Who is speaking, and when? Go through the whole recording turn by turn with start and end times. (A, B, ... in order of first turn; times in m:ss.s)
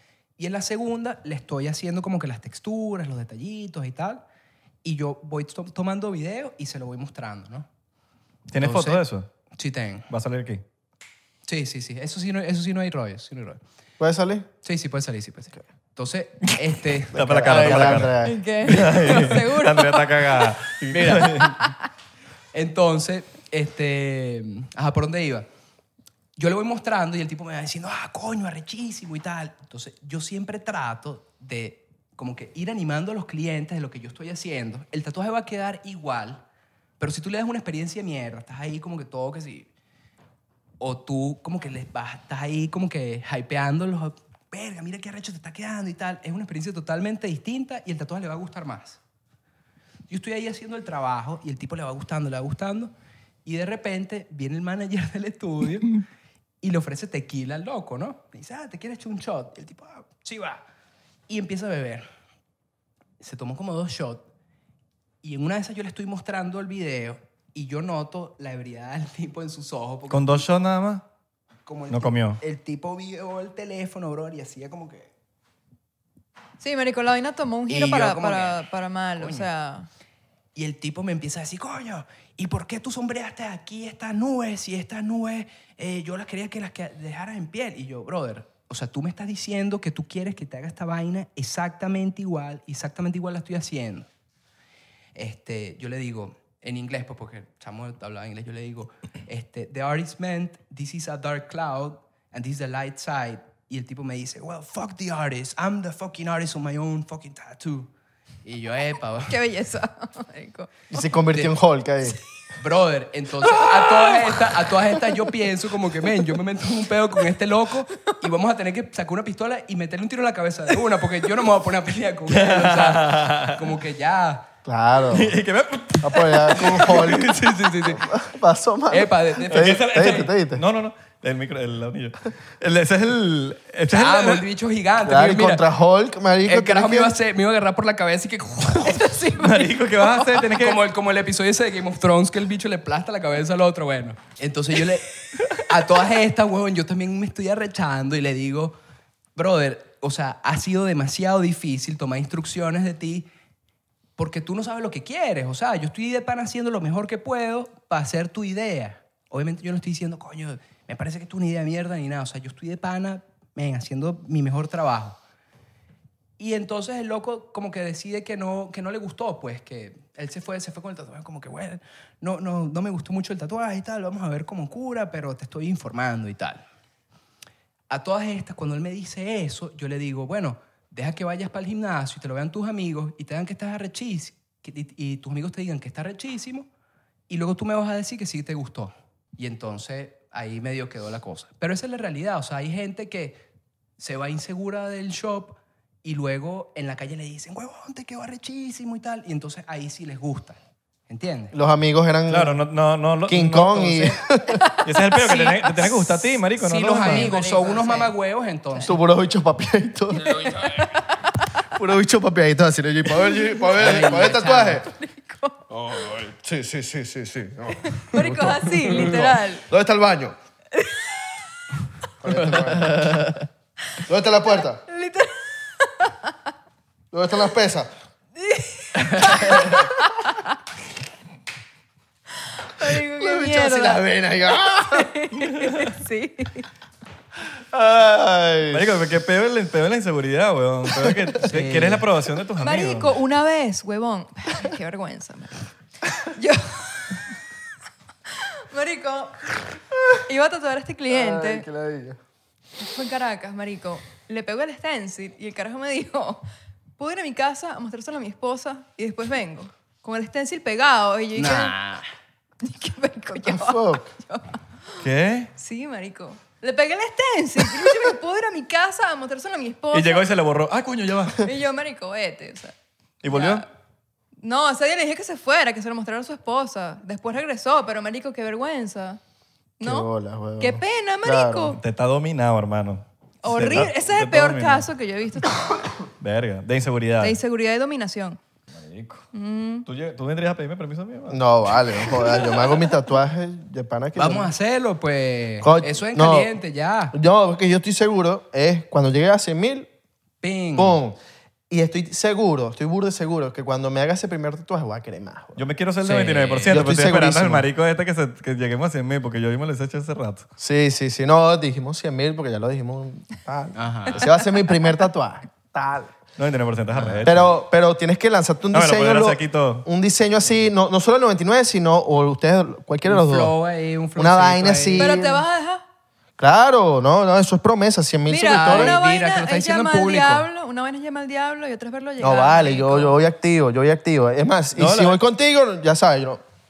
0:00.4-0:04.2 A
0:04.8-0:07.7 A
0:08.5-0:09.3 B
0:08.6-0:09.0 A
0:09.6-0:10.1 A
0:10.1-0:10.6 B
0:11.5-0:13.6 A
0:14.0-0:14.5 C
0:14.6-0:18.1 A
0:17.1-0:21.6 B
0:17.1-0:18.4 C
0:18.2-0:20.5 D
0:20.9-0:21.5 A
0:21.4-0:21.7 D
0:22.5-0:25.5 A
0:26.4-0:36.4 A
0:37.0-0:39.7 A
0:40.8-0:49.0 A
0:50.1-0:52.9 A
0:53.4-0:56.0 A
0:56.6-1:00.6 A
1:01.3-1:02.0 A
1:03.2-1:04.2 A
1:05.2-1:10.5 A
1:10.1-1:11.0 B
1:11.6-1:15.1 A
1:11.9-1:12.4 B
1:16.6-1:19.9 D
1:17.7-1:19.5 A
1:20.5-1:34.1 A
1:35.1-1:47.9 A
1:48.4-1:49.4 A
1:49.3-1:50.8 D
1:50.9-1:52.2 C
1:52.5-2:04.5 A
1:53.8-1:54.1 D
2:02.3-2:03.7 B
2:04.6-2:05.3 C
2:05.1-2:07.5 B
2:06.0-2:07.3 C
2:06.8-2:08.0 A
2:07.9-2:10.6 C
2:08.9-2:10.2 A
2:09.5-2:14.4 B
2:13.9-2:15.6 A
2:15.0-2:17.1 C
2:16.4-2:19.2 A
2:18.8-2:20.3 D
2:19.4-2:20.8 B
2:20.5-2:28.8 A
2:29.4-2:33.3 A
2:34.2-2:45.2 A
2:46.4-2:56.6 A
2:57.9-3:06.7 A
3:07.3-3:13.4 A
3:14.0-3:21.5 A
3:21.5-3:22.6 C
3:22.3-3:24.2 B
3:23.3-3:24.6 C
3:24.7-3:26.3 D
3:24.8-3:27.3 B
3:26.6-3:29.0 A
3:27.0-3:28.1 D
3:28.8-3:30.8 C
3:30.3-3:31.5 D
3:31.7-3:34.9 C
3:33.3-3:35.6 D
3:33.7-3:34.8 A
3:35.7-3:40.4 C
3:37.8-3:39.6 D
3:40.8-3:41.3 D
3:42.2-3:43.3 C
3:42.5-3:43.4 A
3:44.0-3:44.8 C
3:44.9-3:46.3 D
3:47.1-3:47.9 C
3:48.4-3:50.5 D
3:49.0-3:49.4 A
3:49.5-3:49.9 C
3:52.6-3:54.0 D
3:52.9-3:55.1 C
3:54.6-3:56.7 D
3:57.7-3:58.9 C
3:58.7-4:03.2 B
4:01.4-4:02.0 A
4:02.6-4:05.6 D
4:06.2-4:07.2 D
4:08.3-4:09.6 D
4:10.2-4:11.6 D
4:11.1-4:12.2 C
4:12.8-4:16.4 D
4:17.0-4:21.8 D
4:21.4-4:22.0 A
4:22.6-4:24.6 D
4:23.4-4:24.0 C
4:25.0-4:25.5 B
4:25.6-4:30.3 D
4:29.9-4:31.5 B
4:31.4-4:32.7 D
4:33.2-4:33.6 B
4:33.3-4:33.6 D
4:34.4-4:39.2 D
4:39.8-4:41.8 D
4:39.8-4:41.8 C
4:41.8-4:44.9 B
4:43.4-4:45.9 D
4:46.2-4:47.4 B
4:47.2-4:48.4 D
4:48.7-4:49.2 B
4:49.3-4:49.8 D
4:49.8-4:52.4 B
4:51.3-4:54.5 C
4:54.1-4:57.2 A
4:55.6-4:56.5 C
4:57.1-4:59.9 C
5:00.4-5:01.0 A
5:00.8-5:01.2 C
5:01.7-5:05.6 C
5:05.6-5:10.5 B
5:06.0-5:06.8 A
5:06.7-5:07.6 C
5:10.6-5:16.1 C
5:13.7-5:14.3 A
5:14.3-5:14.7 D
5:16.4-5:17.6 B
5:16.9-5:17.2 A
5:17.2-5:23.5 C
5:18.7-5:19.8 B
5:23.0-5:25.2 A
5:24.2-5:25.4 C
5:25.0-5:25.8 D
5:26.4-5:29.0 C
5:28.3-5:33.2 D
5:28.5-5:30.5 A
5:32.2-5:36.4 C
5:34.8-5:35.2 B